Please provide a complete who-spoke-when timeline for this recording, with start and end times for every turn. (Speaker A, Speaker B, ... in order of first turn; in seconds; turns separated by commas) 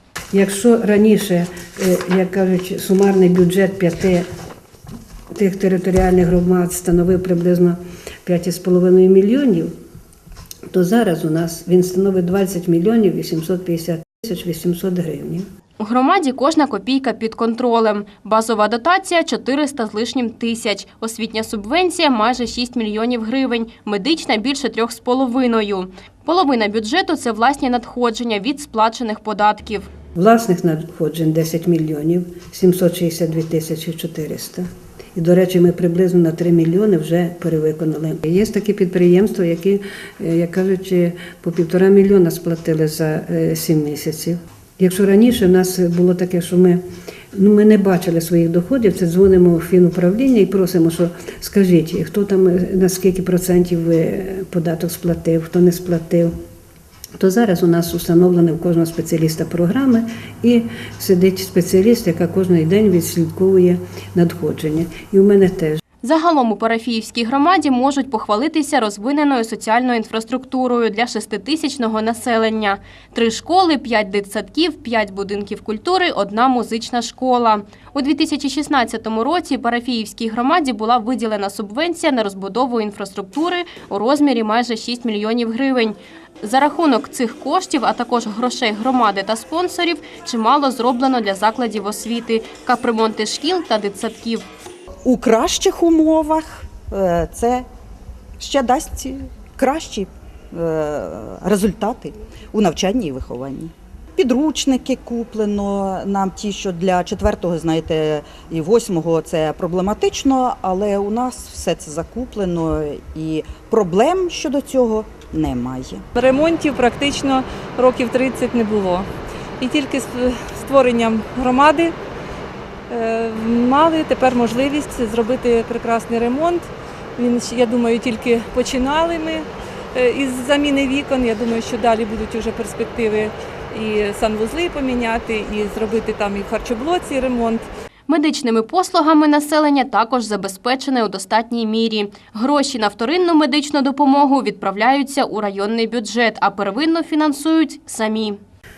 Speaker A: 0.3-4.3, Speaker A: 5.3-9.7, Speaker A: 10.7-15.4, Speaker B: 15.8-29.9, Speaker A: 30.1-46.8, Speaker A: 47.3-56.3, Speaker A: 57.2-65.8, Speaker B: 66.0-94.4, Speaker C: 95.0-97.7, Speaker C: 98.4-116.0, Speaker D: 116.2-119.1, Speaker D: 119.6-121.9, Speaker D: 122.9-137.7, Speaker B: 138.1-148.4